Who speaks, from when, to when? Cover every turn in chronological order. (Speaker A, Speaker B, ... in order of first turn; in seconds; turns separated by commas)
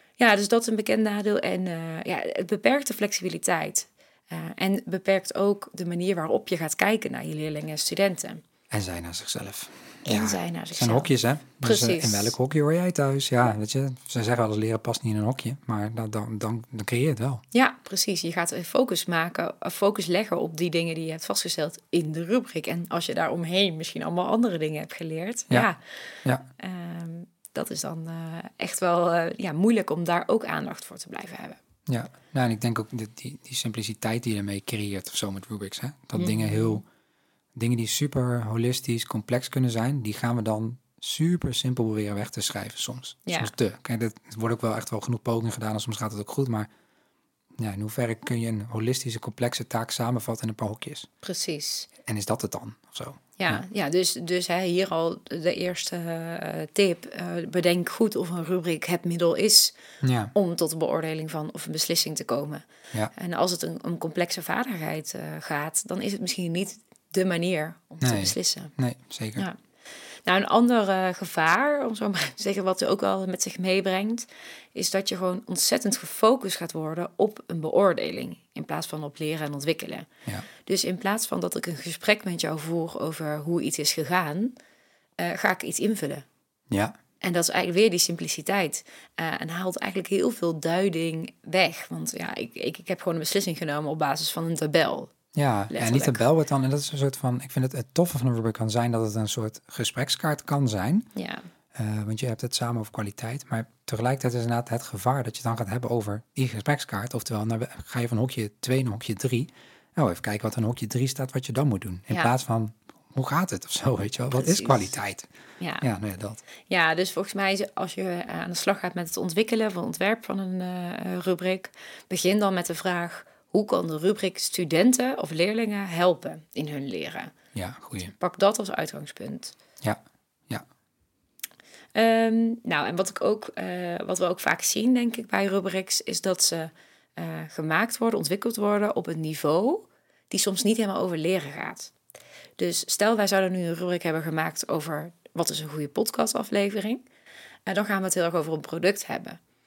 Speaker A: 0.2-8.4, Speaker B: 8.7-17.4, Speaker A: 10.1-12.3, Speaker A: 17.5-25.8, Speaker A: 26.6-31.6, Speaker B: 31.9-36.8, Speaker A: 36.1-36.8, Speaker B: 37.5-46.7, Speaker A: 43.2-43.5, Speaker B: 47.6-51.1, Speaker A: 51.2-51.9, Speaker B: 52.0-53.6, Speaker A: 53.4-59.8, Speaker B: 60.0-60.3, Speaker A: 60.3-68.7, Speaker B: 68.0-69.4, Speaker A: 70.2-80.1, Speaker A: 80.6-84.5, Speaker A: 85.2-86.2, Speaker A: 87.2-95.1, Speaker B: 95.3-101.1, Speaker A: 95.7-96.2, Speaker A: 101.2-101.5, Speaker B: 101.7-115.3, Speaker A: 114.3-114.9, Speaker A: 115.6-115.8, Speaker B: 115.8-116.4, Speaker A: 116.7-127.3, Speaker B: 127.5-128.1, Speaker A: 128.0-129.6, Speaker B: 129.8-130.6, Speaker A: 131.9-141.9, Speaker A: 142.6-147.0, Speaker A: 147.7-149.4